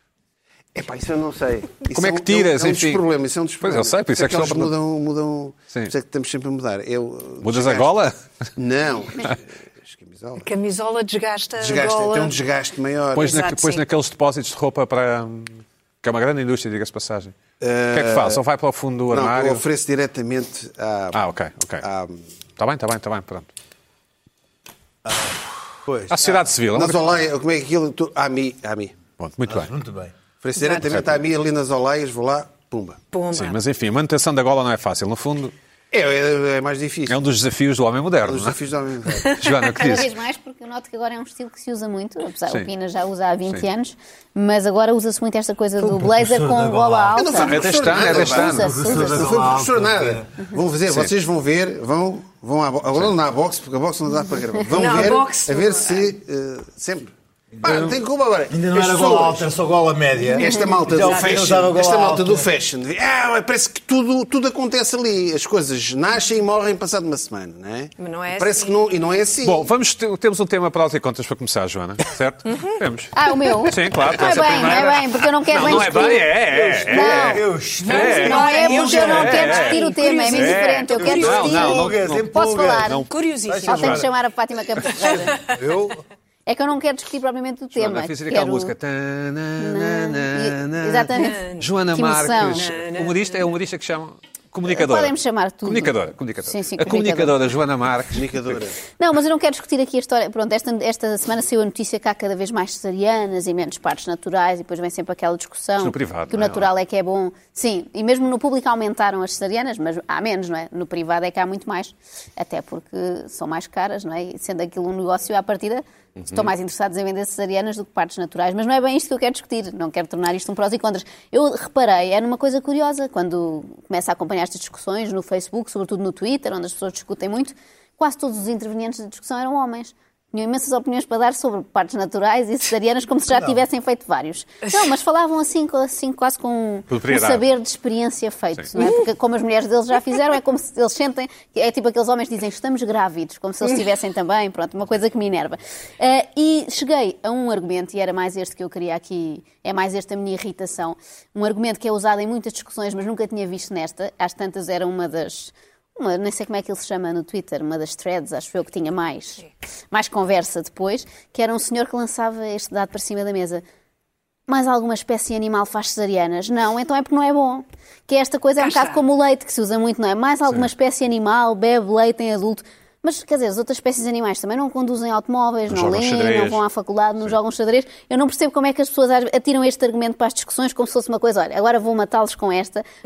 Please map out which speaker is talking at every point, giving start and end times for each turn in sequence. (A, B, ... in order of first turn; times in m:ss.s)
0:00.7-0:07.9 A
0:01.9-0:03.0 B
0:03.6-0:04.7 B
0:07.4-0:08.1 B
0:08.6-0:10.5 A
0:10.4-0:12.4 C
0:11.6-0:13.4 A
0:13.1-0:17.4 B
0:13.2-0:13.8 C
0:17.6-0:18.4 A
0:17.9-0:19.6 B
0:19.1-0:21.2 A
0:21.1-0:21.8 B
0:21.8-0:22.3 A
0:22.6-0:23.5 B
0:25.0-0:26.4 D
0:26.1-0:27.0 B
0:26.7-0:29.0 A
0:29.2-0:29.7 B
0:29.4-0:30.1 D
0:30.4-0:33.0 A
0:30.6-0:30.9 C
0:33.1-0:33.6 C
0:33.3-0:35.5 B
0:35.9-0:37.2 A
0:37.1-0:38.6 B
0:38.3-0:39.4 A
0:39.1-0:40.1 B
0:39.8-0:49.4 E
0:45.8-0:47.3 D
0:47.1-0:59.5 A
0:47.3-0:49.0 B
0:48.4-0:50.5 D
0:54.7-0:56.1 C
0:57.6-0:57.9 D
0:57.6-0:58.0 B
0:58.5-1:02.5 D
1:00.3-1:09.7 A
1:01.0-1:01.5 C
1:08.0-1:08.8 C
1:09.4-1:23.1 B
1:12.5-1:12.8 C
1:13.1-1:16.3 E
1:15.7-1:19.1 D
1:16.9-1:23.1 E
1:17.8-1:21.8 C
1:20.9-1:24.1 D
1:23.1-1:23.9 C
1:23.6-1:25.5 E
1:23.7-1:24.0 B
1:25.0-1:25.4 C
1:25.2-1:26.0 D
1:26.4-1:28.7 E
1:27.7-1:38.6 B
1:29.6-1:32.7 E
1:31.1-1:31.7 C
1:32.5-1:33.4 C
1:34.6-1:37.4 E
1:38.1-1:38.8 A
1:38.9-2:43.6 E
1:45.8-1:46.7 B
1:56.2-1:56.5 B
2:16.9-2:17.5 B
2:18.8-2:19.0 C
2:44.5-3:02.8 E
2:48.6-2:49.0 C
2:55.7-2:56.6 B